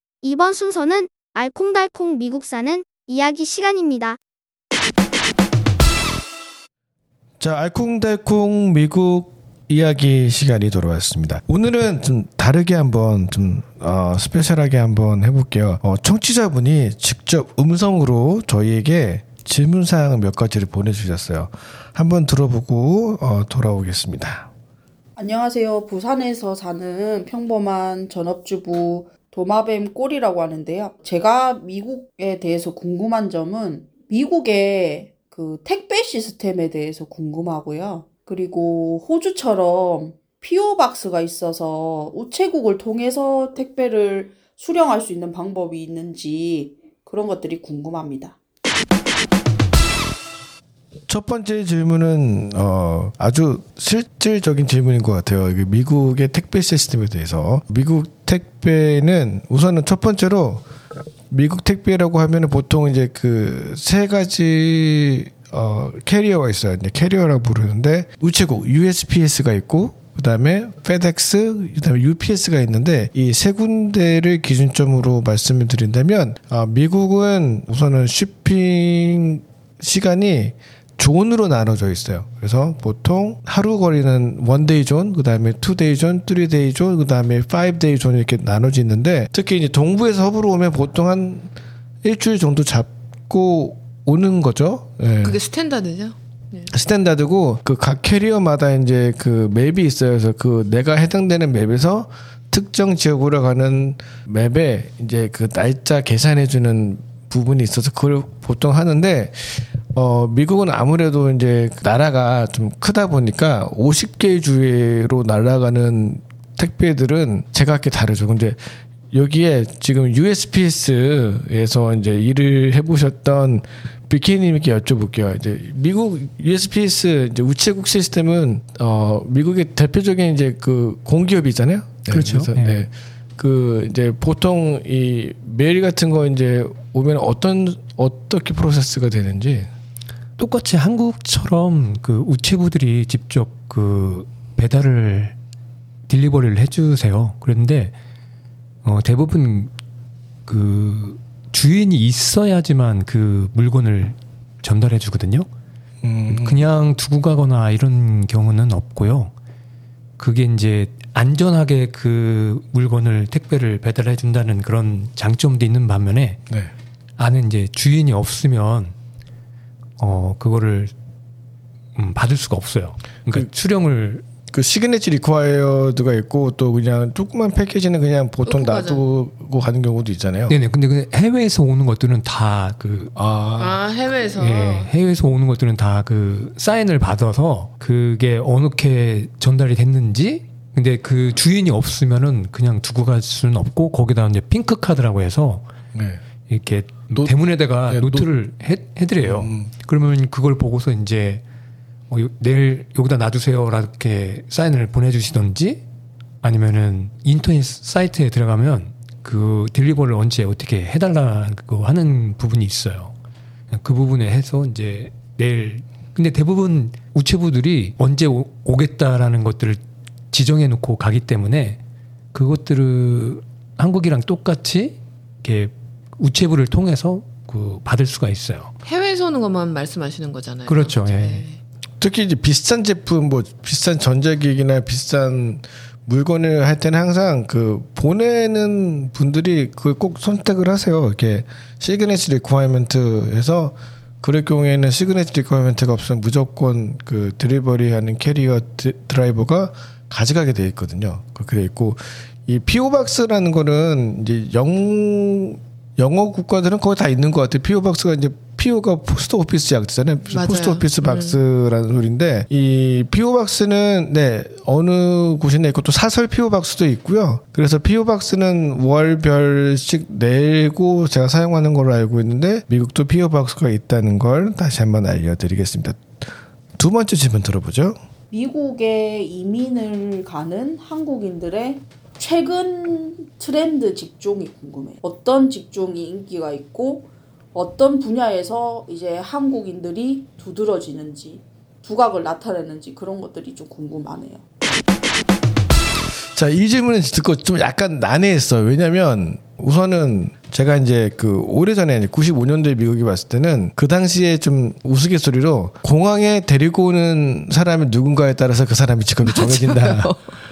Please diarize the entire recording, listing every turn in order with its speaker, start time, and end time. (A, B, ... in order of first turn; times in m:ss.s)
0:00.2-0:04.2 A
0:07.4-0:24.5 B
0:25.2-0:48.4 C
0:51.1-1:00.6 B
1:01.3-1:31.5 B
1:32.0-1:35.4 B
1:35.2-1:36.7 D
1:36.7-1:58.6 B
1:59.1-2:19.7 B
2:12.1-2:12.8 E
2:20.4-2:25.4 E
2:26.1-2:27.9 E
2:28.8-2:29.7 E
2:30.5-2:35.5 E
2:36.0-2:36.6 B
2:36.3-2:39.3 E
2:40.2-2:46.4 E
2:47.2-2:48.9 E
2:50.0-2:50.9 E
2:51.9-2:54.2 E
2:54.5-3:00.6 B
2:58.4-2:59.1 D
3:00.5-3:03.1 E
3:03.1-3:03.8 B
3:03.6-3:04.9 D
3:04.3-3:15.6 E
3:15.9-3:16.2 B
3:16.4-3:21.4 E
3:17.8-3:18.3 B
3:19.2-3:19.7 B
3:22.1-3:25.8 E
3:26.4-3:33.1 E
3:33.7-3:41.8 E
3:42.3-3:48.7 E
3:48.8-3:51.6 D
3:50.6-3:51.4 E
3:52.0-4:36.2 B
4:20.3-4:21.4 D
4:36.8-4:38.0 B
4:38.3-4:54.4 C
4:56.3-5:10.2 B
5:09.2-5:10.2 D